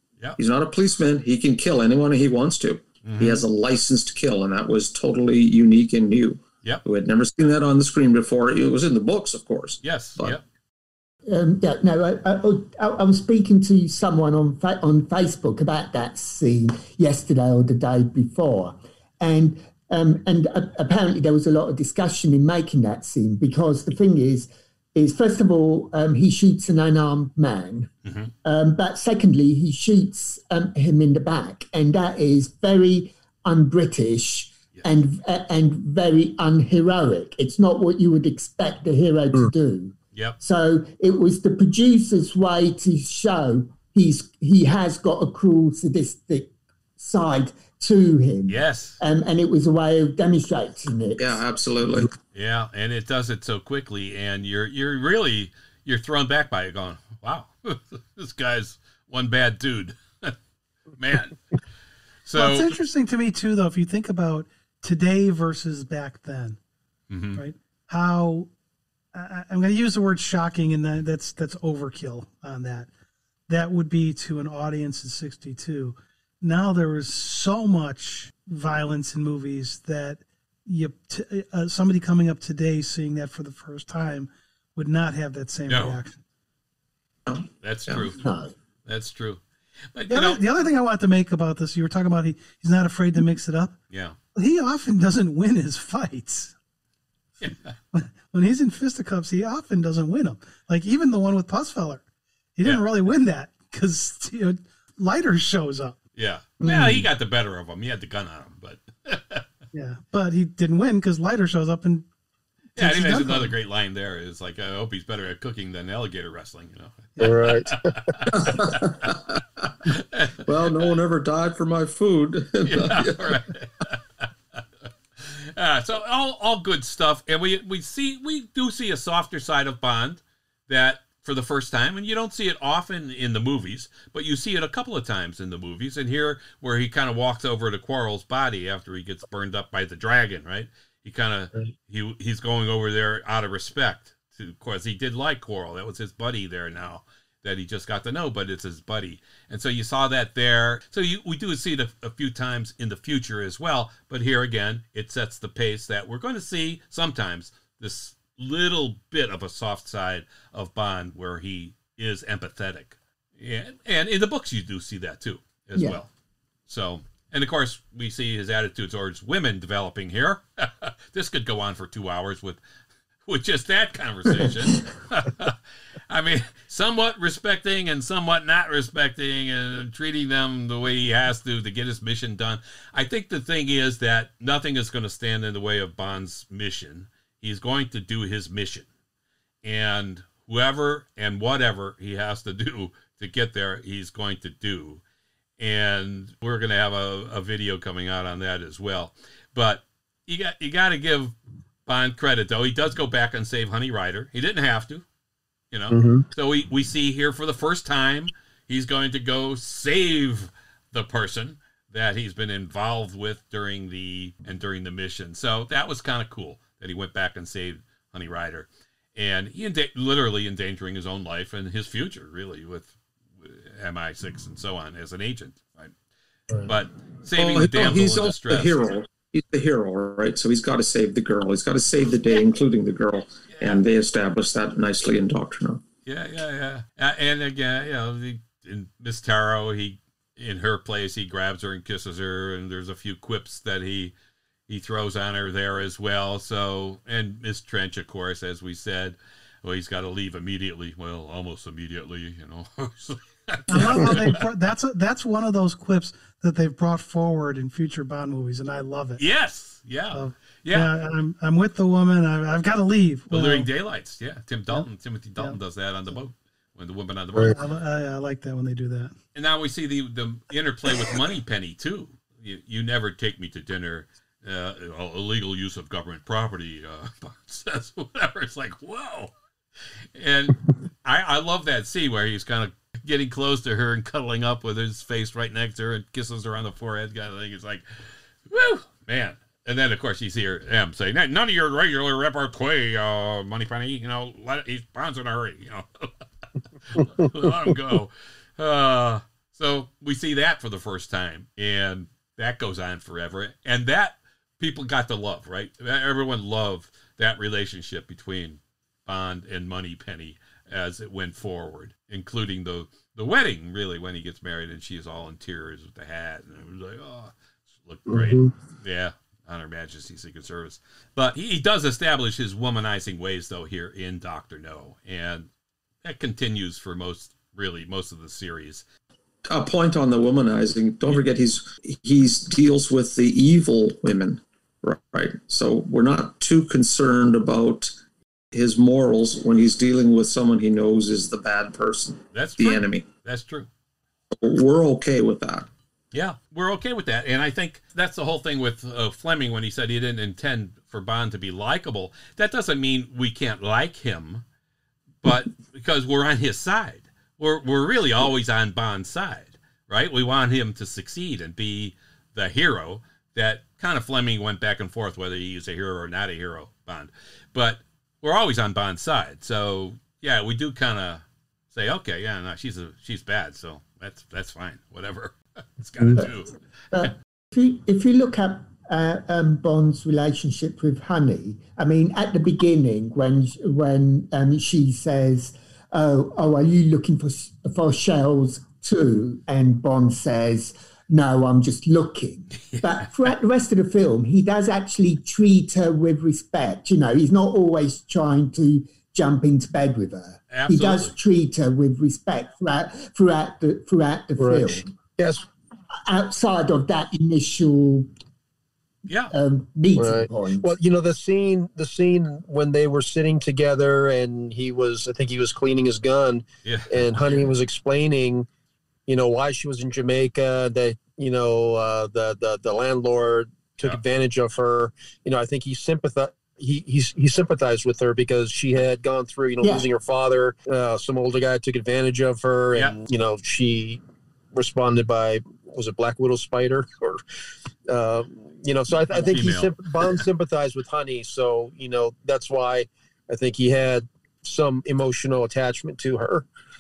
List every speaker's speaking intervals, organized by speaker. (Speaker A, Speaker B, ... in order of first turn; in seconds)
Speaker A: 0.4-10.4, 51.2-52.1, 87.3-88.1, 118.3-119.4, 120.5-123.4, 227.3-235.8, 329.5-337.9, 338.5-343.0, 344.4-345.7
Speaker B: 3.0-3.4, 9.8-10.4, 28.0-28.3, 48.5-49.0, 52.3-60.4, 61.0-61.4, 62.2-62.7, 67.1-67.4, 85.7-86.0, 87.6-88.2, 88.8-89.4, 89.9-90.4, 93.9-94.2, 97.4-97.7, 106.2-109.4, 112.8-119.1, 119.8-120.8, 122.6-124.6, 125.2-166.1, 166.7-172.6, 173.2-175.6, 176.1-188.9, 189.6-195.0, 195.6-201.3, 201.8-205.0, 205.7-225.9, 226.6-228.8, 233.5-233.8, 236.0-244.1, 244.7-254.4, 259.2-260.9, 263.3-267.6, 269.3-279.3, 280.1-287.8, 288.5-296.1, 296.9-325.5, 326.0-328.8, 342.3-343.7, 346.1-354.4, 355.2-376.5, 392.7-393.1, 400.5-401.1, 409.1-409.3, 416.6-417.5, 439.1-440.2
Speaker C: 11.3-27.9, 28.4-51.4, 88.2-88.5, 106.6-107.1, 165.7-166.0, 376.9-404.9, 406.1-408.1, 409.3-410.7, 429.6-429.9
Speaker D: 62.4-66.6, 67.3-68.5, 69.1-72.9, 73.5-86.2, 90.1-93.8, 94.3-96.5, 97.9-102.0, 102.6-106.0, 109.7-112.0, 112.7-113.5, 253.7-259.2, 260.1-263.7, 267.5-269.1
Speaker E: 117.2-118.1, 205.9-206.2, 318.1-318.5, 376.0-376.2, 404.4-405.4, 410.0-418.5, 419.1-434.0, 434.5-437.2, 437.9-446.5